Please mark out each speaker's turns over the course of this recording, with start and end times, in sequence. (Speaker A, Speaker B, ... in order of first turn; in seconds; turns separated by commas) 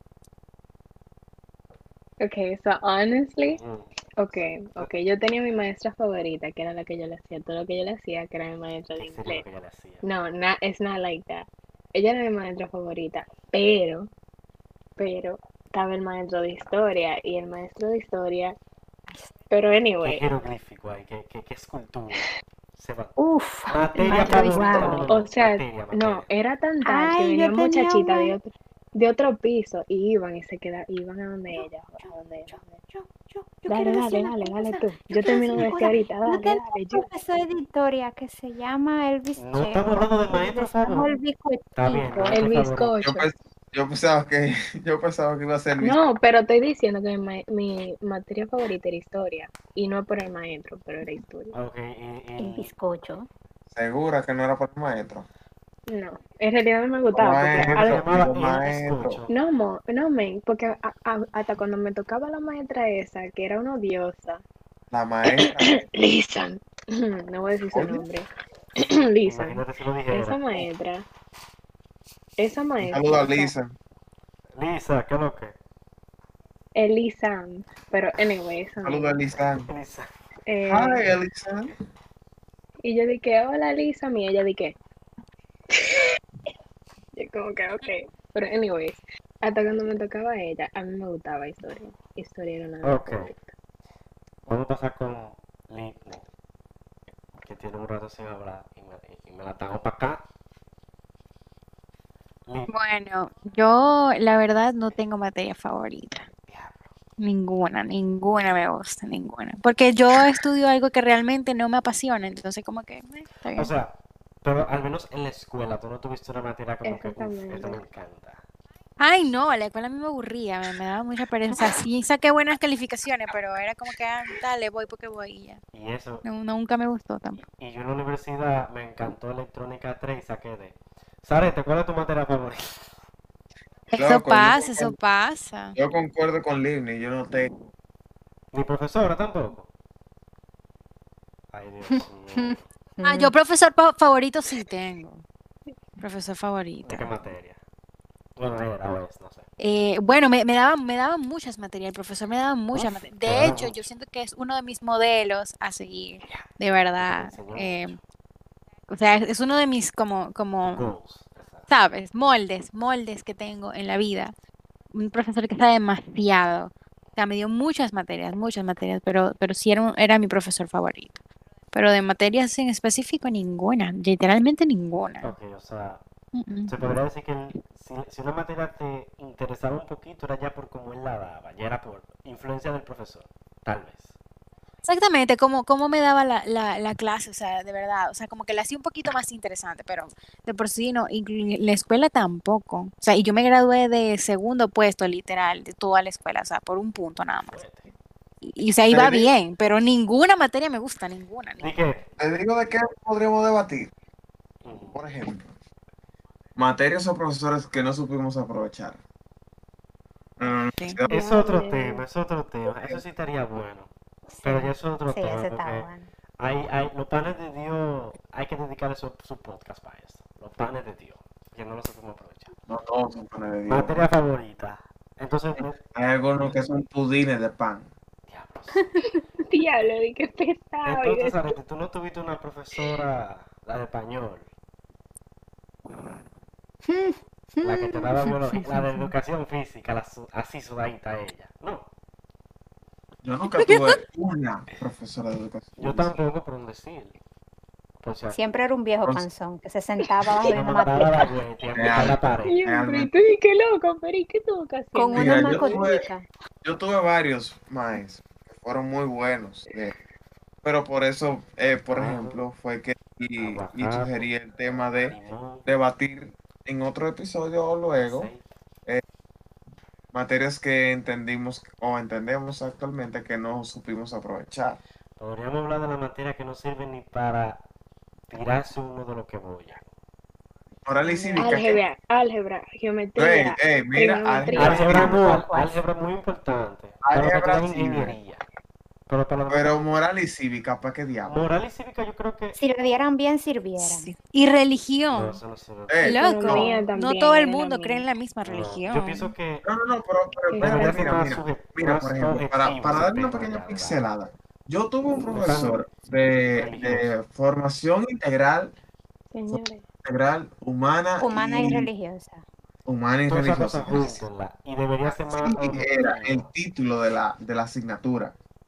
Speaker A: 2.2-3.6, Speaker B: 3.4-3.9, Speaker A: 4.2-9.4, Speaker B: 8.9-10.0, Speaker A: 10.0-14.1, Speaker A: 15.0-18.6, Speaker A: 19.5-20.2, Speaker B: 20.0-23.2, Speaker C: 23.2-25.1, Speaker B: 23.7-26.3, Speaker A: 23.9-32.8, Speaker C: 26.8-28.4, Speaker C: 31.5-42.3, Speaker A: 33.7-37.0, Speaker B: 39.4-41.1, Speaker B: 41.8-43.0, Speaker A: 42.0-43.3, Speaker D: 43.0-46.0, Speaker A: 45.8-51.5, Speaker B: 51.5-52.7, Speaker C: 52.4-53.3, Speaker D: 53.7-55.3, Speaker A: 55.9-58.1, Speaker D: 57.1-59.2, Speaker B: 57.6-59.3, Speaker A: 59.3-64.4, Speaker D: 64.9-65.8, Speaker A: 65.2-68.3, Speaker D: 67.7-68.0, Speaker A: 68.8-71.1, Speaker B: 69.2-70.7, Speaker A: 72.4-73.5, Speaker D: 72.8-73.7, Speaker B: 74.5-75.5, Speaker A: 76.7-79.3, Speaker D: 78.8-79.7, Speaker B: 79.7-80.1, Speaker A: 80.5-81.1, Speaker D: 80.7-81.7, Speaker A: 82.8-84.8, Speaker A: 85.7-86.2, Speaker A: 87.2-93.5, Speaker B: 92.8-93.3, Speaker B: 94.5-96.2, Speaker B: 97.3-100.2, Speaker B: 102.5-102.7, Speaker E: 102.7-106.3, Speaker B: 106.5-106.9, Speaker E: 107.2-113.7, Speaker B: 113.5-118.4, Speaker A: 116.8-117.8, Speaker E: 119.0-125.6, Speaker B: 125.7-126.2, Speaker E: 126.2-127.4, Speaker B: 127.4-132.8, Speaker E: 133.9-135.8, Speaker D: 133.9-134.9, Speaker D: 135.7-137.5, Speaker B: 138.5-139.7, Speaker B: 141.5-142.6, Speaker C: 142.4-143.3, Speaker E: 143.0-145.2, Speaker E: 146.0-147.1, Speaker B: 146.8-147.6, Speaker B: 148.4-149.5, Speaker E: 149.6-157.9, Speaker B: 152.7-153.9, Speaker B: 156.2-158.0, Speaker E: 158.9-160.8, Speaker B: 160.6-161.7, Speaker E: 161.7-164.3, Speaker E: 164.9-171.2, Speaker E: 171.7-175.3, Speaker B: 175.2-176.0, Speaker E: 176.3-176.7, Speaker B: 176.7-184.1, Speaker E: 184.8-197.6, Speaker B: 197.4-197.9, Speaker E: 198.4-201.8, Speaker D: 198.9-199.3, Speaker B: 201.6-202.1, Speaker D: 202.2-203.9, Speaker B: 204.6-205.0, Speaker D: 204.9-205.5, Speaker D: 206.6-209.0, Speaker D: 210.4-211.1, Speaker A: 211.1-212.0, Speaker B: 211.1-213.9, Speaker D: 212.7-213.0, Speaker C: 214.3-216.1, Speaker B: 214.4-215.9, Speaker B: 216.4-222.5, Speaker D: 222.7-224.0, Speaker B: 223.7-225.8, Speaker D: 225.6-227.9, Speaker B: 228.3-228.9, Speaker A: 229.1-231.5, Speaker B: 230.8-234.4, Speaker C: 236.8-238.7, Speaker B: 237.6-241.9, Speaker D: 243.2-246.1, Speaker E: 243.6-243.9, Speaker B: 245.8-247.2, Speaker B: 248.0-248.4, Speaker C: 248.3-251.3, Speaker B: 250.4-252.6, Speaker D: 251.8-253.1, Speaker A: 252.4-255.9, Speaker C: 254.9-256.3, Speaker D: 255.1-256.0, Speaker D: 256.6-259.9, Speaker D: 260.6-268.3, Speaker B: 261.9-262.4, Speaker B: 263.4-265.7, Speaker B: 268.0-268.5, Speaker D: 270.1-274.8, Speaker B: 275.2-277.6, Speaker B: 278.3-279.9, Speaker D: 280.9-281.8, Speaker A: 281.4-285.1, Speaker D: 283.1-285.1, Speaker B: 284.5-288.4, Speaker C: 285.0-285.8, Speaker D: 287.0-288.2, Speaker B: 289.1-289.8, Speaker D: 289.5-291.4, Speaker B: 291.2-292.6, Speaker C: 292.6-294.1, Speaker E: 293.8-295.4, Speaker B: 295.1-296.7, Speaker D: 295.9-296.2, Speaker E: 296.0-299.3, Speaker A: 296.1-298.1, Speaker B: 298.4-299.6, Speaker D: 299.6-308.7, Speaker A: 300.5-301.1, Speaker B: 300.6-304.0, Speaker B: 305.3-307.1, Speaker A: 309.3-309.8, Speaker D: 309.5-311.9, Speaker C: 311.2-312.4, Speaker D: 312.9-314.2, Speaker B: 313.3-316.4, Speaker D: 315.1-318.3